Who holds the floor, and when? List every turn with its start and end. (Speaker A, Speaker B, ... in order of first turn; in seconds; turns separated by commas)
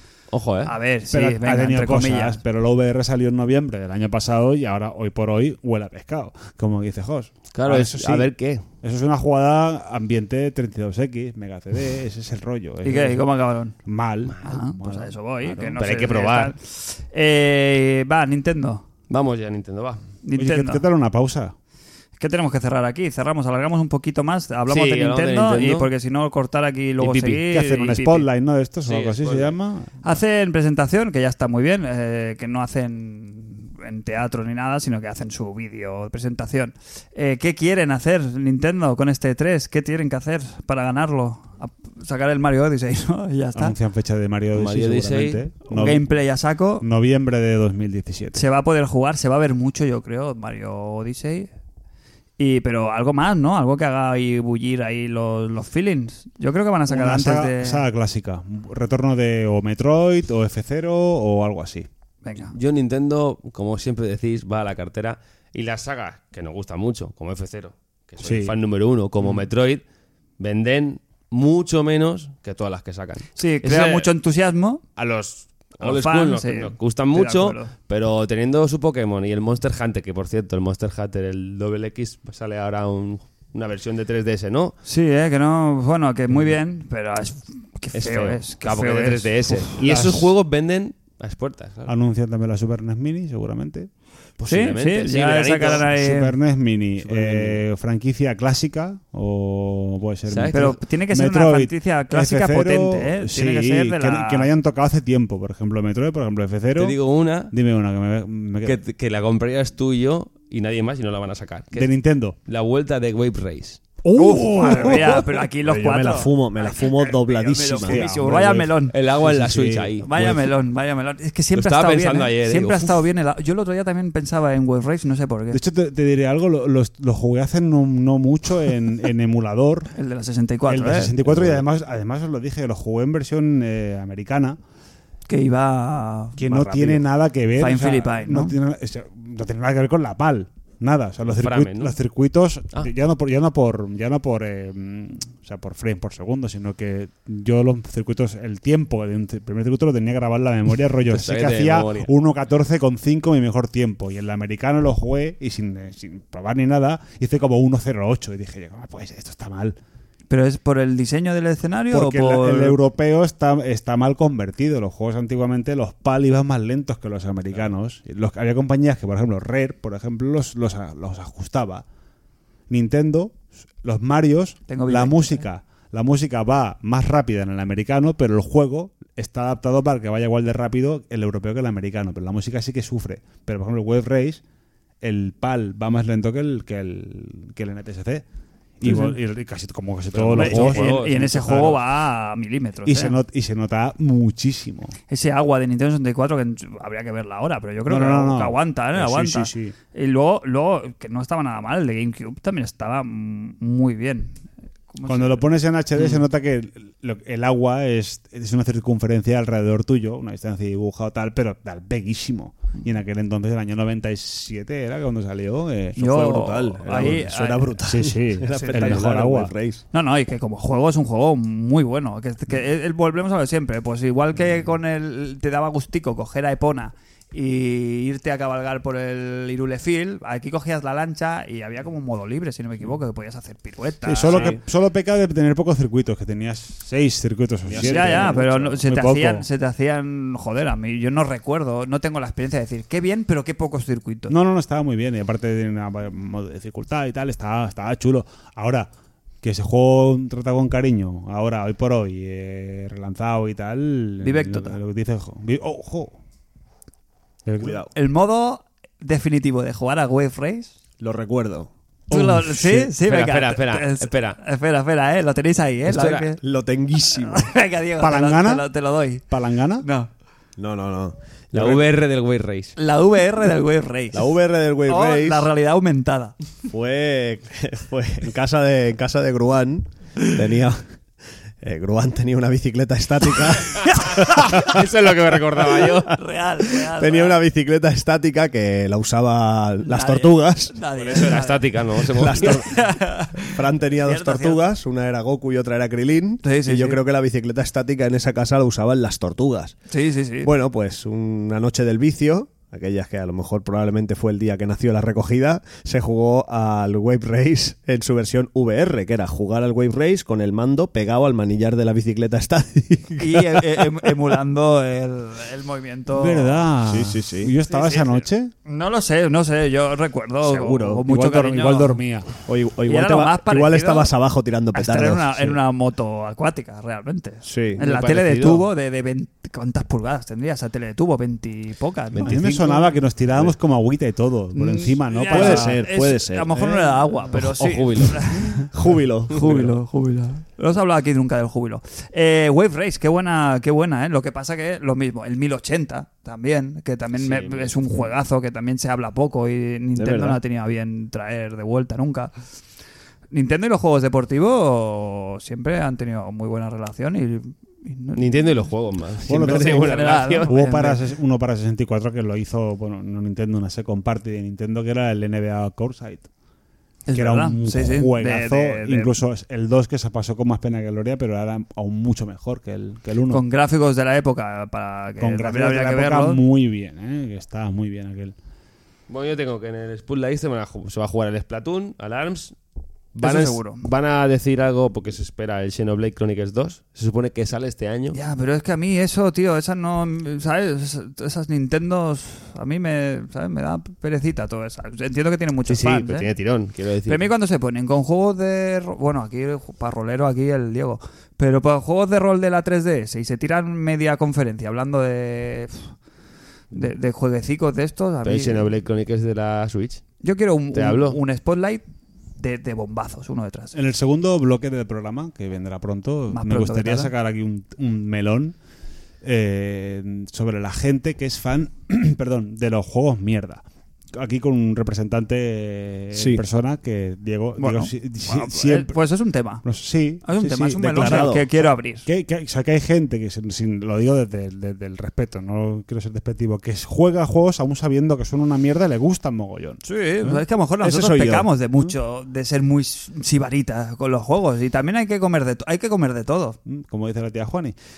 Speaker A: 0.3-0.7, Speaker B: 0.6-2.4, Speaker C: 1.1-13.3, Speaker A: 7.5-8.6, Speaker B: 12.8-13.7, Speaker C: 13.8-15.8, Speaker A: 14.3-14.6, Speaker B: 14.4-18.8, Speaker A: 15.8-16.5, Speaker A: 19.1-20.0, Speaker B: 20.2-20.8, Speaker C: 20.4-21.5, Speaker B: 22.2-28.2, Speaker A: 24.7-25.9, Speaker A: 27.0-27.4, Speaker C: 27.2-29.9, Speaker A: 28.8-29.6, Speaker B: 30.0-43.7, Speaker C: 43.5-46.0, Speaker A: 44.5-45.4, Speaker B: 45.7-46.9, Speaker C: 46.8-48.4, Speaker B: 48.3-51.5, Speaker B: 52.4-57.8, Speaker C: 56.9-61.9, Speaker B: 62.2-62.5, Speaker A: 62.5-69.8, Speaker C: 68.2-68.5, Speaker A: 70.4-74.1, Speaker B: 73.3-74.8, Speaker A: 75.0-84.7, Speaker B: 75.8-77.7, Speaker B: 84.8-89.7, Speaker A: 87.9-91.9, Speaker C: 89.8-90.3, Speaker C: 91.8-93.9, Speaker A: 94.4-95.8, Speaker B: 94.4-96.3, Speaker C: 95.7-107.0, Speaker A: 97.0-97.6, Speaker A: 100.3-100.8, Speaker B: 100.5-104.5, Speaker A: 106.8-107.5, Speaker C: 107.5-108.8, Speaker A: 108.6-111.9, Speaker C: 111.7-112.4, Speaker A: 112.5-113.8, Speaker C: 114.0-115.2, Speaker B: 114.1-119.0, Speaker D: 115.6-118.1, Speaker C: 117.8-120.5, Speaker A: 118.9-120.1, Speaker B: 120.0-125.6, Speaker A: 121.5-122.9, Speaker C: 125.5-129.9, Speaker B: 129.9-131.1, Speaker C: 130.7-134.6, Speaker A: 131.2-131.6, Speaker B: 135.3-138.5, Speaker C: 136.4-159.8, Speaker A: 141.3-141.9, Speaker A: 151.1-152.1, Speaker B: 160.3-162.8, Speaker C: 161.9-171.8, Speaker C: 172.7-184.4, Speaker B: 174.7-175.4, Speaker C: 185.0-188.2, Speaker C: 188.8-191.8, Speaker B: 188.8-189.1, Speaker A: 190.1-191.1, Speaker B: 190.3-193.2, Speaker C: 192.8-194.9, Speaker B: 195.1-204.4, Speaker C: 197.9-199.7, Speaker B: 204.9-205.4, Speaker C: 205.0-217.1, Speaker B: 216.0-217.7, Speaker D: 216.0-219.8, Speaker C: 217.8-219.5, Speaker B: 218.5-219.1, Speaker B: 219.9-234.6, Speaker C: 234.0-239.4, Speaker D: 237.7-238.4, Speaker B: 237.8-244.3, Speaker C: 244.3-248.9, Speaker C: 249.4-256.2, Speaker B: 254.2-254.8, Speaker C: 257.4-257.8, Speaker D: 257.6-257.9, Speaker B: 257.9-260.7, Speaker D: 261.0-261.7, Speaker C: 262.1-262.9, Speaker B: 262.1-266.4, Speaker A: 263.1-264.4, Speaker A: 265.9-266.2, Speaker D: 266.4-267.5, Speaker B: 267.1-270.1, Speaker C: 268.0-268.6, Speaker C: 269.3-269.9, Speaker D: 270.6-271.8, Speaker A: 271.5-272.7, Speaker B: 272.8-274.3, Speaker D: 274.1-275.5, Speaker B: 274.8-276.3, Speaker D: 276.7-280.9, Speaker D: 281.6-284.8, Speaker B: 283.9-284.3, Speaker A: 284.0-286.1, Speaker D: 285.6-286.0, Speaker B: 286.1-287.4, Speaker D: 286.7-290.8, Speaker B: 289.8-294.6, Speaker A: 291.0-292.7, Speaker D: 292.0-299.8, Speaker B: 296.4-297.0, Speaker B: 299.9-300.5, Speaker D: 300.4-314.1, Speaker B: 313.2-316.7, Speaker C: 316.1-318.5, Speaker D: 316.8-317.5, Speaker B: 317.6-322.0, Speaker D: 320.4-321.0, Speaker C: 321.0-322.3, Speaker D: 322.4-325.6, Speaker B: 322.9-324.1, Speaker B: 324.7-332.5, Speaker D: 327.4-327.8, Speaker A: 327.8-328.7, Speaker C: 332.2-335.8, Speaker D: 332.4-332.8, Speaker B: 334.5-338.7, Speaker D: 335.3-337.1, Speaker A: 337.3-338.3, Speaker D: 338.2-339.8, Speaker B: 339.2-352.3, Speaker A: 347.2-348.0, Speaker D: 349.9-350.4, Speaker B: 353.3-358.7, Speaker A: 358.1-360.5, Speaker C: 359.2-366.3, Speaker B: 359.3-361.0, Speaker B: 367.1-369.1, Speaker C: 367.1-373.4, Speaker B: 373.3-376.4, Speaker C: 375.2-378.3, Speaker A: 379.1-382.5, Speaker A: 383.1-388.2, Speaker B: 383.2-383.9, Speaker B: 388.1-396.3, Speaker A: 395.7-397.2, Speaker B: 397.1-405.9, Speaker B: 406.7-408.7, Speaker A: 408.2-410.0, Speaker B: 410.2-411.8, Speaker A: 410.7-411.2, Speaker B: 412.4-413.8, Speaker C: 413.7-418.6, Speaker B: 416.3-417.1, Speaker C: 419.2-428.9, Speaker D: 426.1-426.4, Speaker B: 427.6-429.6, Speaker C: 429.6-440.4, Speaker B: 430.2-432.1, Speaker D: 430.8-431.4, Speaker B: 439.8-446.6, Speaker D: 440.8-441.5, Speaker C: 446.6-447.8